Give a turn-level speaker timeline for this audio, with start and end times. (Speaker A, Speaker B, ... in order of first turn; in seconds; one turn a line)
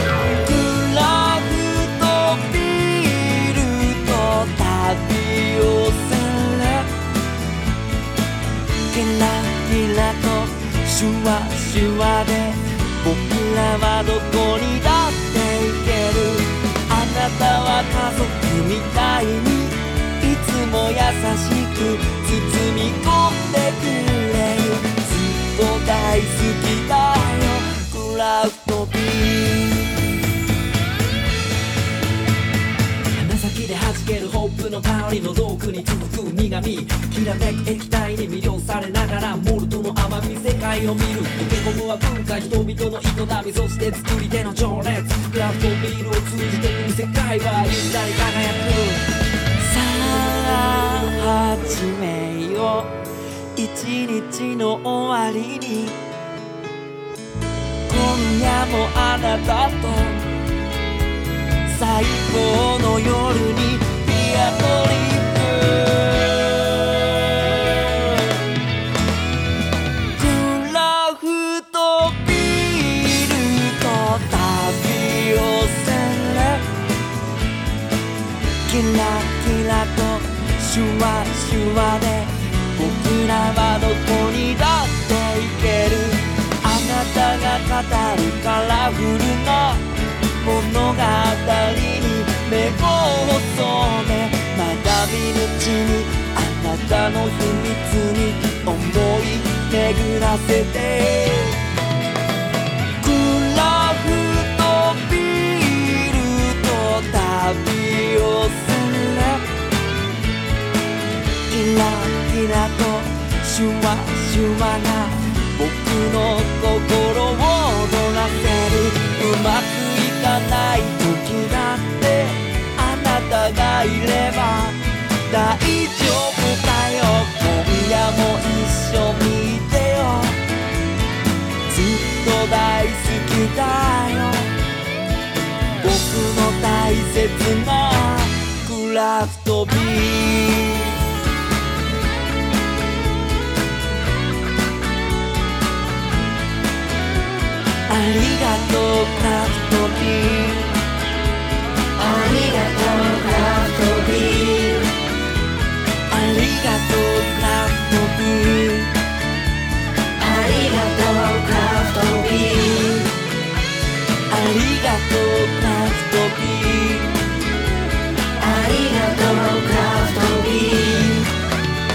Speaker A: 0.4-6.9
Speaker A: 8.9-30.0
Speaker A: 33.1-53.0
Speaker A: 53.6-56.0
Speaker A: 57.9-60.3
Speaker A: 61.7-68.3
Speaker A: 70.2-76.6
Speaker A: 78.7-89.9
Speaker A: 90.4-101.6
Speaker A: 103.0-109.5
Speaker A: 111.5-130.4
Speaker A: 131.7-134.5
Speaker A: 135.8-140.9
Speaker A: 147.9-150.7
Speaker A: 152.0-154.9
Speaker A: 156.1-158.9
Speaker A: 160.2-163.1
Speaker A: 164.3-167.1
Speaker A: 168.4-171.3